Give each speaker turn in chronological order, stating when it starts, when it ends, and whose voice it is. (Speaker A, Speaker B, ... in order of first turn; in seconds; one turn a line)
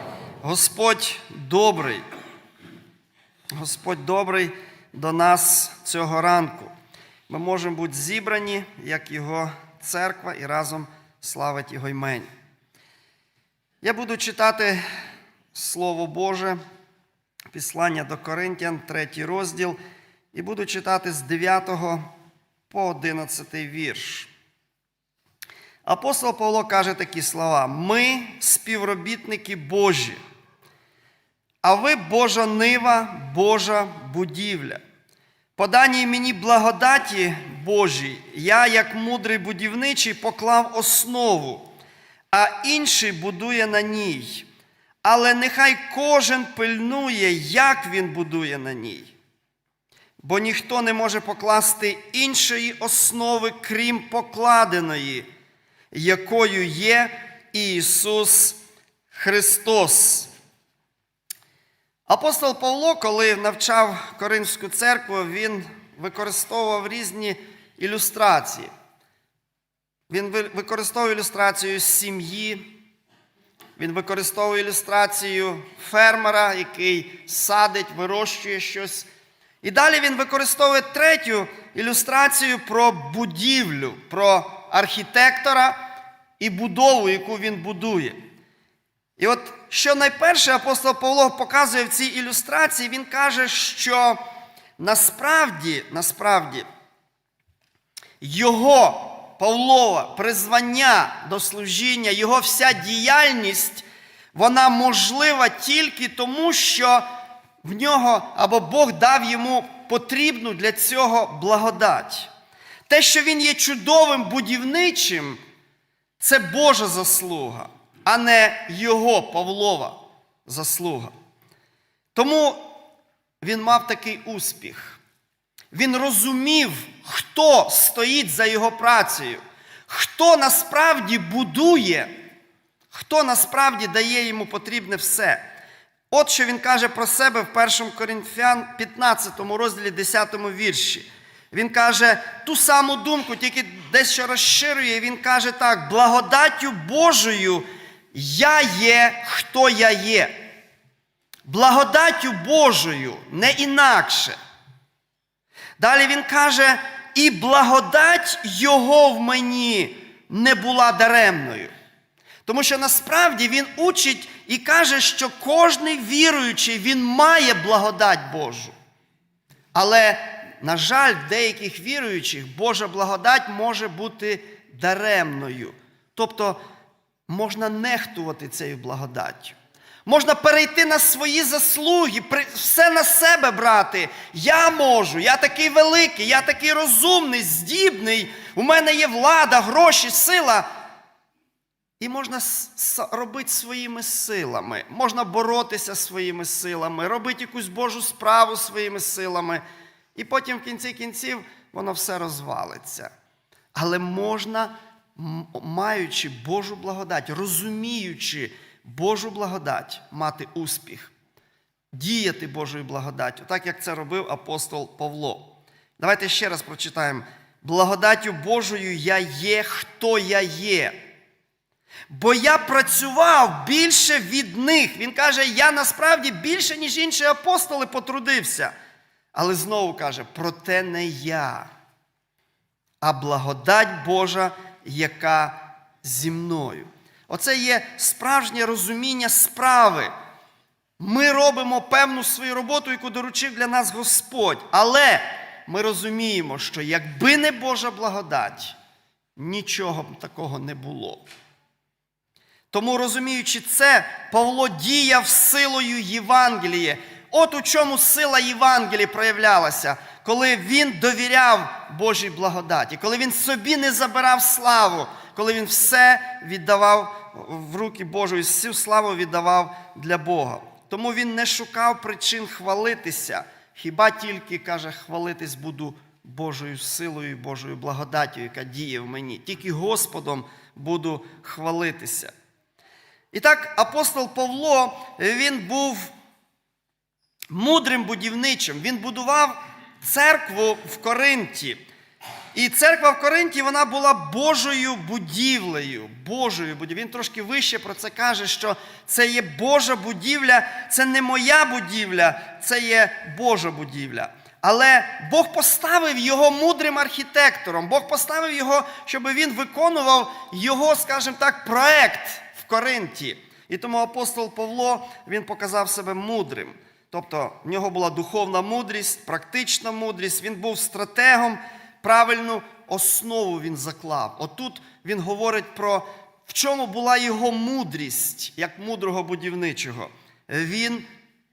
Speaker A: 0.4-2.0
Speaker A: 3.5-6.7
Speaker A: 7.3-12.3
Speaker A: 13.8-14.8
Speaker A: 15.5-16.6
Speaker A: 17.5-19.8
Speaker A: 20.3-22.0
Speaker A: 22.7-24.3
Speaker A: 25.9-30.2
Speaker A: 31.6-34.8
Speaker A: 35.6-41.7
Speaker A: 42.3-44.5
Speaker A: 45.0-49.1
Speaker A: 50.2-55.3
Speaker A: 55.9-58.6
Speaker A: 59.1-60.3
Speaker A: 62.1-68.7
Speaker A: 70.1-72.7
Speaker A: 73.8-79.1
Speaker A: 79.6-85.9
Speaker A: 86.4-88.2
Speaker A: 89.2-94.2
Speaker A: 94.8-96.7
Speaker A: 98.2-107.1
Speaker A: 107.6-112.3
Speaker A: 112.9-115.4
Speaker A: 116.2-121.1
Speaker A: 122.2-122.8
Speaker A: 123.4-125.0
Speaker A: 125.7-132.2
Speaker A: 132.9-135.4
Speaker A: 136.1-150.4
Speaker A: 151.5-154.4
Speaker A: 155.8-161.7
Speaker A: 162.5-168.7
Speaker A: 169.7-176.6
Speaker A: 177.3-190.7
Speaker A: 192.0-199.6
Speaker A: 200.2-203.1
Speaker A: 203.7-211.1
Speaker A: 211.9-221.0
Speaker A: 222.1-228.7
Speaker A: 229.3-231.7
Speaker A: 233.0-240.1
Speaker A: 241.0-248.8
Speaker A: 249.4-251.2
Speaker A: 252.7-282.3
Speaker A: 283.3-286.1
Speaker A: 287.5-291.9
Speaker A: 292.5-331.1